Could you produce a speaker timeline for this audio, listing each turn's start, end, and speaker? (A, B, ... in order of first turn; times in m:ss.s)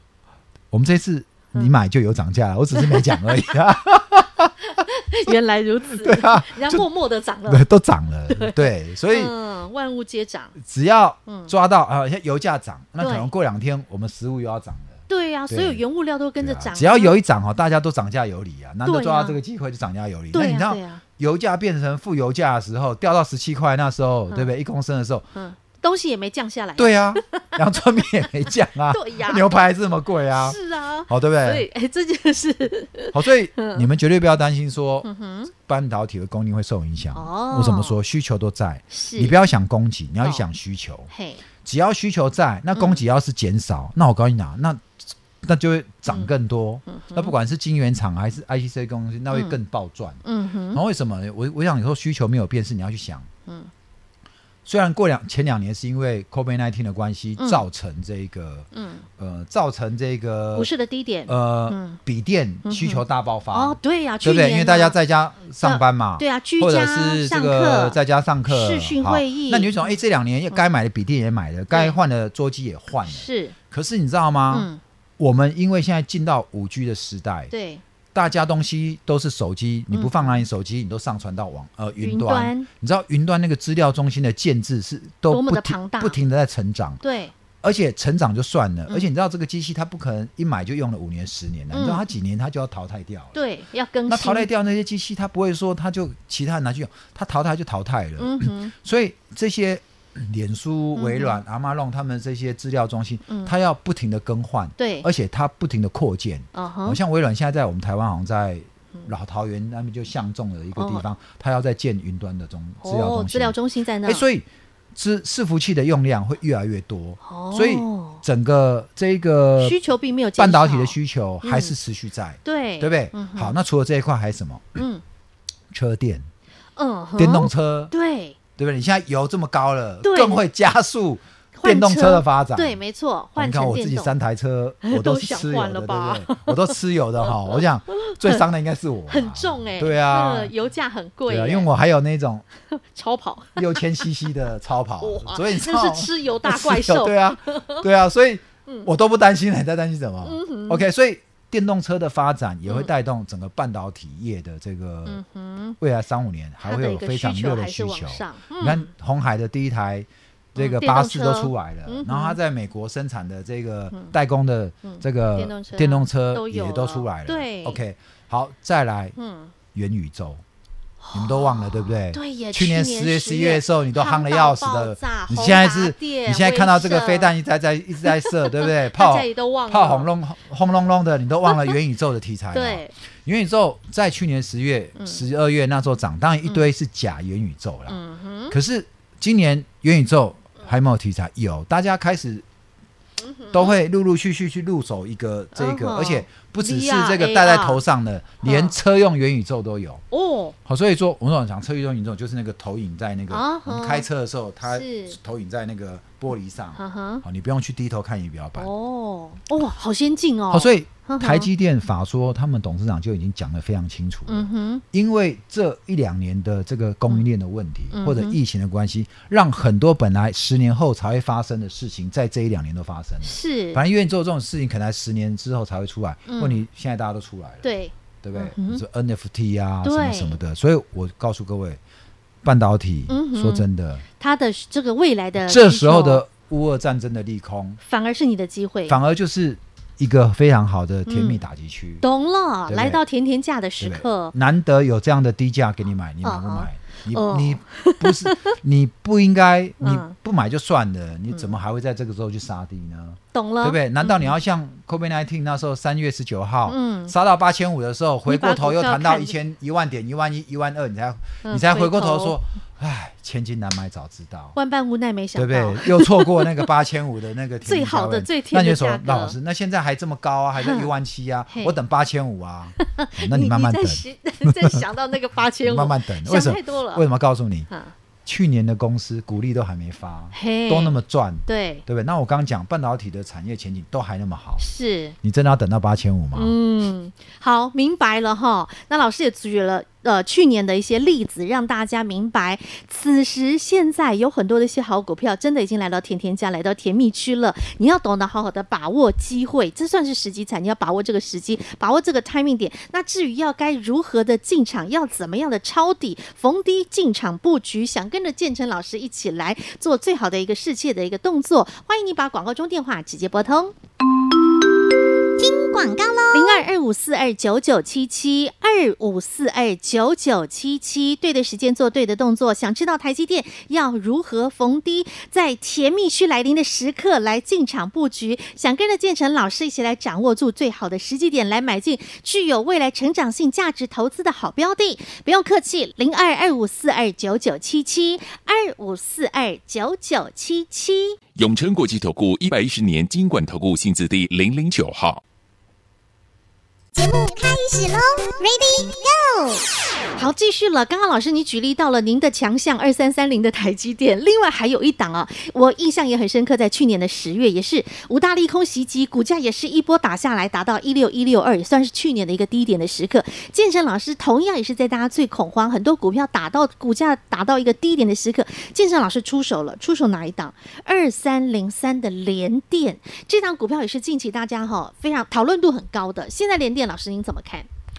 0:00.7-0:04.5 A
0:02.7-0:03.6 B
0:04.6-0:07.6 B
0:05.9-0:06.8 A
0:07.4-0:09.3 A
0:08.3-0:10.6 B
0:10.6-0:15.8 A
0:11.3-0:11.5 B
0:13.0-0:13.3 B
0:15.1-0:17.2 B
0:16.4-0:25.3 A
0:18.8-0:19.4 B
0:20.3-0:21.0 B
0:25.3-0:27.6 B
0:26.8-0:30.6 A
0:28.9-0:29.6 B
0:30.3-0:33.8 B
0:31.1-0:31.6 A
0:33.1-0:41.1 A
0:35.0-0:35.5 B
0:37.1-0:38.0 B
0:38.9-0:39.4 B
0:41.1-0:41.4 B
0:41.6-0:50.2 A
0:42.7-0:43.0 B
0:46.9-0:47.3 B
0:49.3-0:49.6 B
0:50.2-0:50.8 B
0:50.7-0:53.3 A
0:54.6-1:00.7 A
0:57.4-0:57.6 B
0:58.7-0:59.0 B
1:00.5-1:02.0 B
1:01.3-1:17.5 A
1:02.6-1:05.0 B
1:05.6-1:09.9 B
1:11.7-1:12.0 B
1:13.1-1:13.5 B
1:14.5-1:14.8 B
1:17.5-1:17.8 B
1:18.1-1:27.0 A
1:19.9-1:20.4 B
1:22.0-1:22.7 B
1:25.3-1:26.2 B
1:27.0-1:27.3 B
1:27.6-1:33.4 A
1:31.7-1:32.0 B
1:33.3-1:34.5 B
1:34.1-1:59.8 A
1:38.2-1:38.7 B
1:40.9-1:41.4 B
1:44.8-1:45.1 B
1:46.5-1:47.0 B
1:50.8-1:51.0 B
1:52.8-1:54.2 B
1:57.2-1:58.2 B
1:59.6-2:01.7 B
2:00.4-2:04.8 A
2:02.4-2:03.5 B
2:04.8-2:05.0 B
2:05.7-2:06.3 A
2:06.8-2:08.4 B
2:07.2-2:07.9 A
2:08.6-2:12.8 A
2:10.0-2:10.4 B
2:11.6-2:14.1 B
2:13.4-2:20.5 A
2:14.8-2:16.6 B
2:17.2-2:18.4 B
2:19.1-2:21.7 B
2:21.3-2:22.4 A
2:22.7-2:24.0 B
2:23.6-2:35.2 A
2:25.0-2:27.8 B
2:30.2-2:30.8 B
2:35.0-2:35.8 B
2:35.8-2:49.2 A
2:36.6-2:38.9 B
2:40.6-2:42.4 B
2:44.8-2:47.8 B
2:49.2-2:49.5 B
2:49.7-2:50.4 A
2:51.0-2:57.3 B
2:51.1-3:12.4 A
2:58.0-3:00.1 B
3:01.5-3:01.8 B
3:02.5-3:02.9 B
3:05.0-3:05.2 B
3:07.9-3:08.5 B
3:13.2-3:13.7 B
3:13.5-3:20.0 A
3:15.5-3:17.8 B
3:18.4-3:18.7 B
3:20.1-3:20.5 B
3:20.6-3:28.7 A
3:23.3-3:24.0 B
3:24.6-3:25.2 B
3:26.8-3:27.2 B
3:28.6-3:31.5 B
3:30.5-3:47.7 A
3:34.3-3:34.8 B
3:37.9-3:38.4 B
3:43.2-3:43.8 B
3:46.3-3:46.6 B
3:47.6-3:48.8 B
3:48.2-3:51.8 A
3:49.8-3:50.4 B
3:52.4-3:54.0 A
3:53.1-3:53.6 B
3:54.2-3:56.2 B
3:55.4-3:57.8 A
3:57.8-3:59.0 B
3:58.9-4:02.0 A
4:01.1-4:01.4 B
4:02.0-4:04.3 B
4:02.7-4:03.0 A
4:03.8-4:24.6 A
4:06.2-4:08.5 B
4:09.8-4:10.1 B
4:13.3-4:14.3 B
4:16.7-4:17.1 B
4:18.3-4:19.4 B
4:21.4-4:22.4 B
4:24.5-4:26.6 B
4:25.3-4:34.8 A
4:27.6-4:29.4 B
4:30.6-4:30.9 B
4:31.5-4:31.8 B
4:32.8-4:37.0 B
4:35.6-4:37.7 A
4:38.2-4:44.6 A
4:40.3-4:41.8 B
4:44.6-4:45.2 B
4:45.2-4:46.6 A
4:46.3-5:13.7 B
5:15.4-5:16.6 C
5:16.3-5:41.2 B
5:41.3-5:45.2 D
5:46.9-5:49.6 C
5:50.2-6:17.7 B